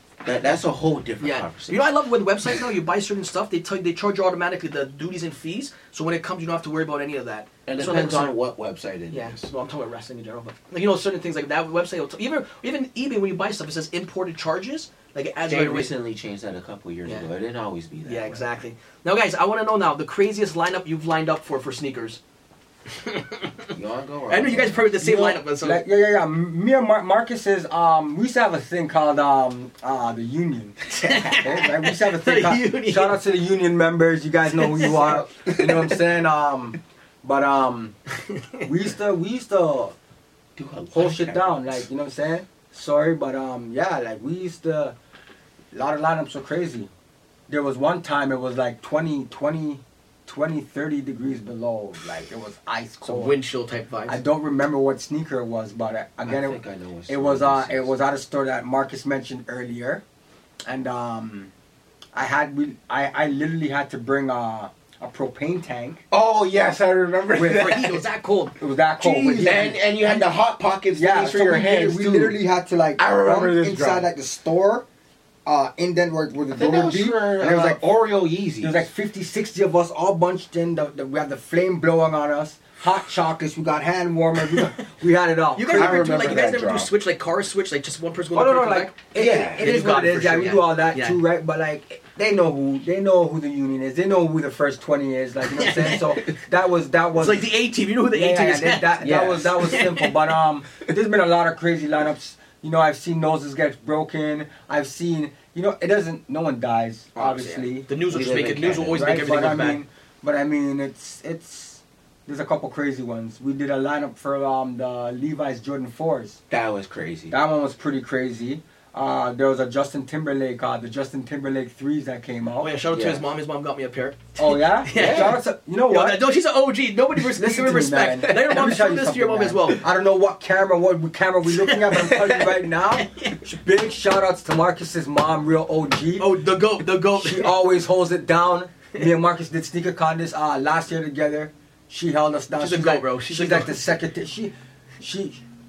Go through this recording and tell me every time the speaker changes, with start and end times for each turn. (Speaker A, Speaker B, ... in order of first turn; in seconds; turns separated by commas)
Speaker A: 0.2-2.0, Speaker B: 1.2-8.3, Speaker A: 7.7-9.4, Speaker B: 9.1-15.9, Speaker A: 15.5-18.4, Speaker B: 18.0-22.2, Speaker B: 22.9-23.5, Speaker A: 23.7-25.3, Speaker B: 24.3-25.8, Speaker C: 25.0-37.9, Speaker B: 30.9-33.2, Speaker A: 34.9-36.0, Speaker B: 38.3-38.6, Speaker C: 38.6-39.9, Speaker A: 40.6-41.8, Speaker C: 40.9-45.0, Speaker C: 45.7-46.9, Speaker C: 47.5-53.4, Speaker B: 53.0-54.2, Speaker C: 54.1-60.0, Speaker A: 56.2-57.9, Speaker C: 60.6-61.5, Speaker C: 62.1-66.0, Speaker A: 66.1-68.0, Speaker C: 67.3-67.8, Speaker B: 67.4-69.7, Speaker C: 68.6-70.2, Speaker A: 69.4-72.4, Speaker C: 70.9-74.8, Speaker A: 73.0-74.1, Speaker C: 75.5-77.8, Speaker A: 76.5-78.8, Speaker C: 78.6-86.3, Speaker B: 85.5-91.2, Speaker A: 85.7-86.9, Speaker C: 88.3-97.5, Speaker A: 89.1-89.9, Speaker B: 95.5-96.3, Speaker B: 97.2-100.1, Speaker C: 98.1-107.9, Speaker A: 99.0-99.8, Speaker B: 107.2-109.8, Speaker A: 108.1-109.3, Speaker C: 108.9-116.4, Speaker A: 116.5-117.4, Speaker C: 117.3-122.7, Speaker B: 122.6-125.3, Speaker A: 122.9-123.2, Speaker C: 124.4-126.2, Speaker A: 124.9-125.4, Speaker B: 125.9-129.8, Speaker C: 127.2-136.3, Speaker B: 131.5-133.4, Speaker B: 136.2-137.5, Speaker C: 136.9-145.4, Speaker B: 142.6-143.9